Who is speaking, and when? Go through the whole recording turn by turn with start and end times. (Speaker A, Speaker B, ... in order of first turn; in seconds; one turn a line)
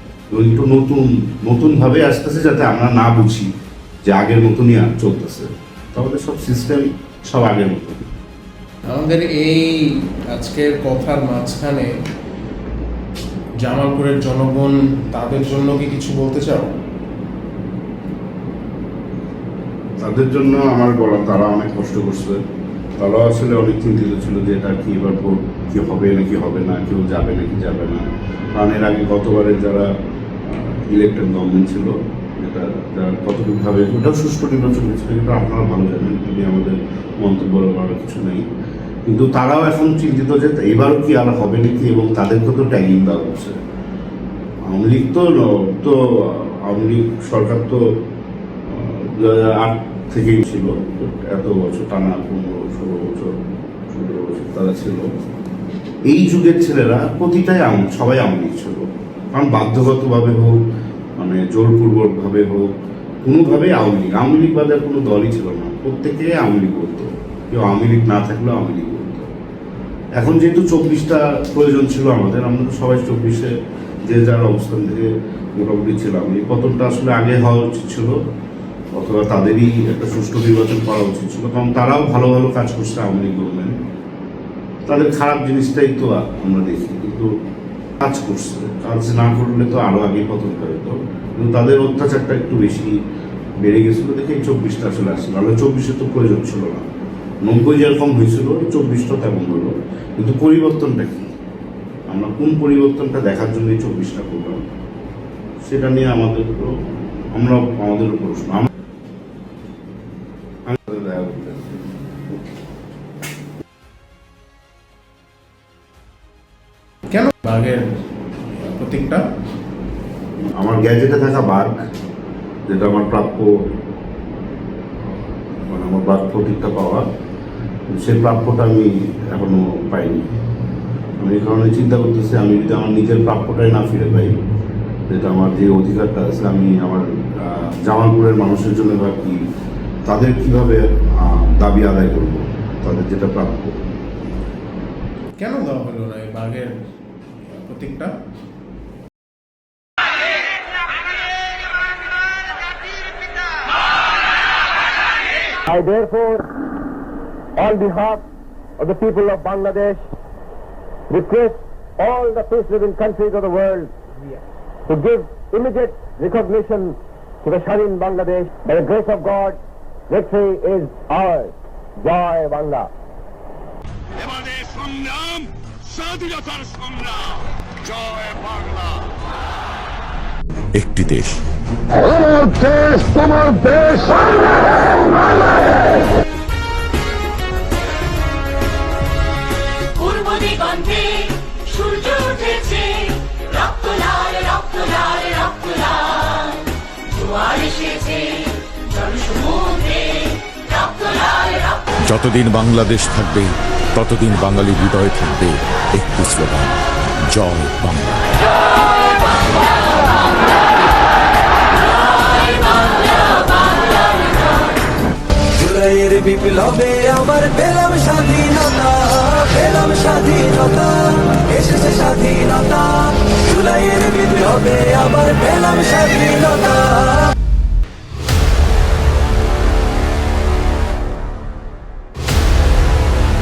Speaker A: 0.3-3.5
Speaker A: 4.0-8.1
Speaker B: 8.9-11.9
Speaker B: 13.6-16.7
Speaker A: 20.0-22.4
Speaker A: 23.0-28.0
Speaker A: 28.5-29.9
Speaker A: 30.4-38.4
Speaker A: 39.0-43.5
Speaker A: 44.7-47.8
Speaker A: 48.7-53.3
Speaker A: 53.9-55.1
Speaker A: 56.1-60.5
Speaker A: 61.2-62.7
Speaker A: 63.2-69.3
Speaker A: 70.2-73.5
Speaker A: 74.0-78.1
Speaker A: 79.0-83.8
Speaker A: 84.8-87.3
Speaker A: 88.0-92.9
Speaker A: 93.6-96.9
Speaker A: 97.4-101.3
Speaker A: 102.1-104.6
Speaker A: 105.6-106.7
Speaker A: 107.3-108.7
Speaker A: 110.7-111.8
Speaker B: 117.1-117.9
Speaker B: 118.6-119.2
Speaker A: 120.4-121.7
Speaker A: 122.7-123.5
Speaker A: 125.7-127.0
Speaker A: 127.9-130.2
Speaker A: 131.2-134.3
Speaker A: 135.1-139.4
Speaker A: 140.1-143.8
Speaker B: 145.4-146.8
Speaker B: 147.5-148.1
Speaker C: 155.7-156.5
Speaker C: 157.6-158.2
Speaker C: 158.8-160.0
Speaker C: 161.1-163.9
Speaker C: 164.9-172.9
Speaker D: 174.6-175.0
Speaker D: 176.2-176.8
Speaker D: 180.7-181.4
Speaker D: 182.5-183.9
Speaker E: 190.0-196.6
Speaker E: 197.2-201.7
Speaker D: 202.0-208.3
Speaker F: 215.6-227.3